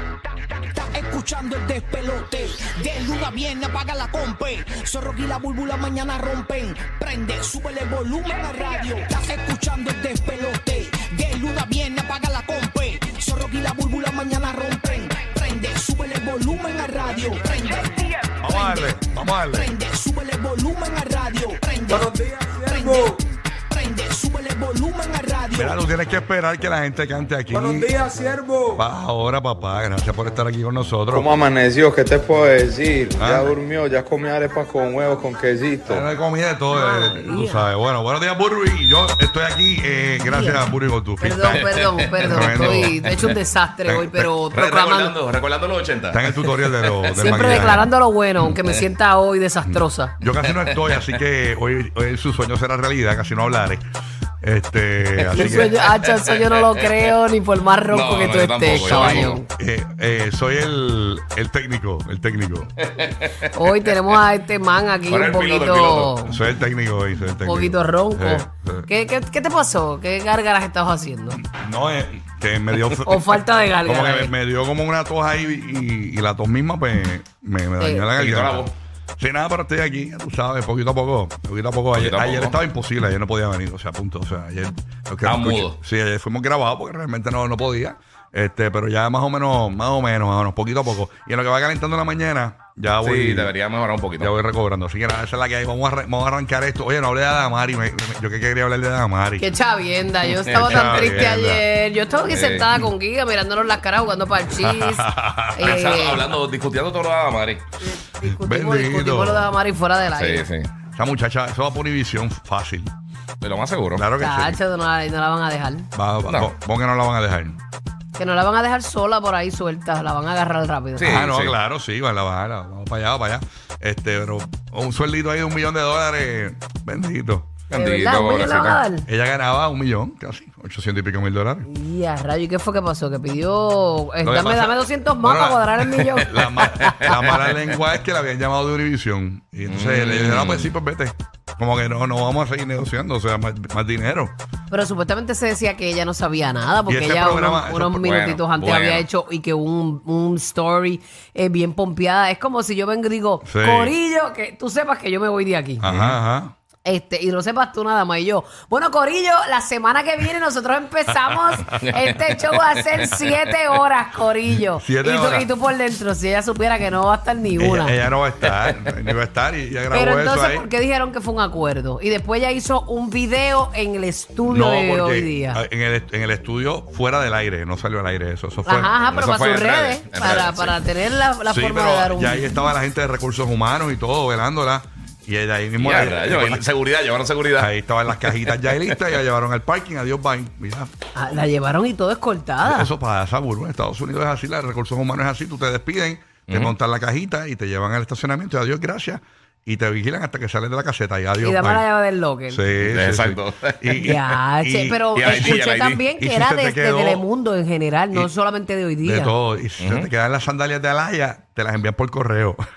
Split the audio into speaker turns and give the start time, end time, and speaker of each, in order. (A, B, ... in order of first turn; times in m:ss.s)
0:00.7-0:18.9 A
0:08.2-0:08.9 B
0:16.5-0:18.6 B
0:18.4-0:19.8 C
0:19.5-0:23.2 A
0:21.8-0:23.2 B
0:23.7-0:25.8 A
0:25.5-0:28.0 C
0:27.5-0:28.8 B
0:28.7-0:31.4 C
0:31.1-0:36.1 D
0:33.2-0:33.6 C
0:35.9-0:43.0 C
0:36.7-0:37.7 E
0:40.3-0:40.6 E
0:41.2-0:45.2 E
0:41.4-0:43.2 F
0:43.8-0:44.3 C
0:44.5-0:47.8 F
0:46.1-0:47.9 C
0:47.1-0:50.1 E
0:49.6-0:53.8 C
0:50.6-0:51.1 F
0:54.4-0:55.7 C
0:55.2-0:57.1 F
0:55.3-0:59.5 E
0:57.9-0:59.4 F
0:58.7-1:02.7 C
1:02.8-1:04.2 F
1:03.5-1:06.4 E
1:05.1-1:06.1 F
1:06.2-1:08.9 C
1:07.4-1:11.4 E
1:11.3-1:33.5 C
1:13.0-1:14.3 E
1:17.8-1:18.1 E
1:18.2-1:18.7 F
1:21.9-1:22.6 F
1:25.2-1:25.8 F
1:33.0-1:34.3 F
1:34.2-1:39.5 C
1:39.4-1:46.3 E
1:40.4-1:41.3 F
1:40.5-1:41.6 C
1:42.3-1:42.7 F
1:44.6-1:45.7 C
1:45.6-1:47.6 F
1:47.8-1:50.5 E
1:48.3-1:49.5 C
1:50.1-1:50.7 F
1:50.9-1:52.9 C
1:53.4-1:54.1 F
1:53.9-1:54.6 C
1:54.2-1:55.9 E
1:56.0-1:57.6 C
1:58.2-2:01.2 E
2:01.0-2:01.6 F
2:01.0-2:07.6 C
2:07.7-2:08.8 F
2:07.7-2:09.1 E
2:09.0-2:11.7 C
2:11.7-2:16.9 E
2:14.2-2:14.8 F
2:15.2-2:24.3 C
2:16.0-2:17.5 F
2:19.7-2:20.8 F
2:24.7-2:35.8 E
2:26.9-2:28.1 C
2:28.1-2:29.1 F
2:33.4-2:34.0 C
2:35.8-2:36.5 C
2:35.8-2:36.2 F
2:36.8-2:48.0 E
2:41.8-2:43.5 F
2:44.7-2:45.5 C
2:47.6-2:50.7 C
2:48.6-2:48.9 F
2:49.9-2:55.6 E
2:54.5-2:59.0 C
2:58.6-3:02.6 E
2:59.0-3:00.8 F
3:01.5-3:06.6 C
3:05.8-3:09.0 F
3:07.6-3:10.9 C
3:11.2-3:12.9 E
3:12.6-3:21.9 C
3:16.5-3:16.7 F
3:21.4-3:22.6 E
3:22.5-3:25.6 C
3:22.8-3:24.0 F
3:24.0-3:29.3 E
3:25.2-3:26.0 F
3:26.2-3:27.2 C
3:29.0-3:32.6 C
3:29.8-3:30.1 F